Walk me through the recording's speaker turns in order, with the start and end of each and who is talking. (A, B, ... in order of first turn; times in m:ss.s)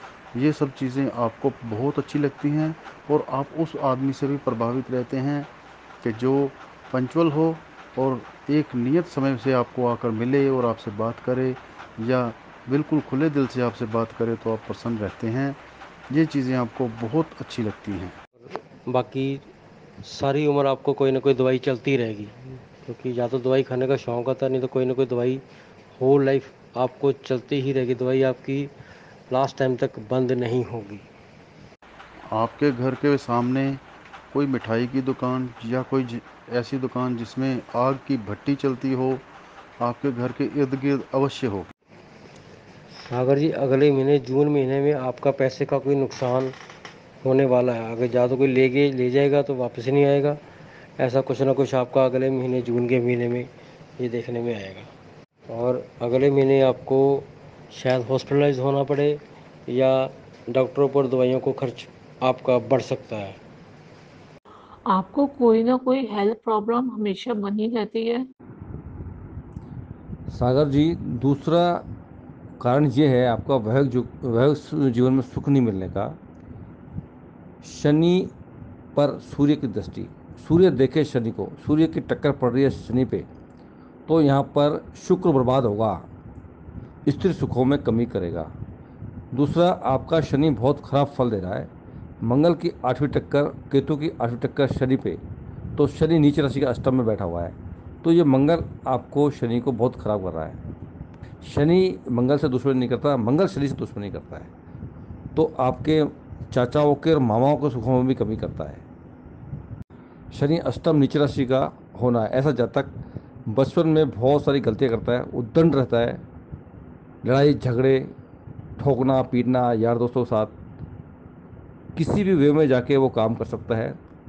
0:00.3-0:05.5 A
0:06.0-0:15.6 A
0:16.1-0:18.2 A
0:18.5-0:19.4 B
0:20.0-0:25.4 B
0:26.0-0:28.7 B
0:29.3-0:31.0 B
0:32.3-0:33.8 A
0:34.3-0:39.2 A
0:39.8-0:41.7 A
0:43.0-0:46.5 B
0:47.2-0:50.4 B
0:51.0-0:54.9 B
0:55.5-1:03.4 B
1:04.9-1:08.2 C
1:10.3-1:11.8 D
1:12.6-1:16.2 D
1:17.6-1:18.3 D
1:18.9-1:23.3 D
1:24.1-1:26.0 D
1:27.0-1:28.5 D
1:29.3-1:31.7 D
1:32.2-1:35.2 D
1:35.8-1:40.6 D
1:41.4-1:44.5 D
1:45.3-1:48.8 D
1:50.3-1:52.9 D
1:53.5-1:56.2 D
1:57.2-1:58.1 D
1:58.8-2:00.5 D
2:02.0-2:04.0 D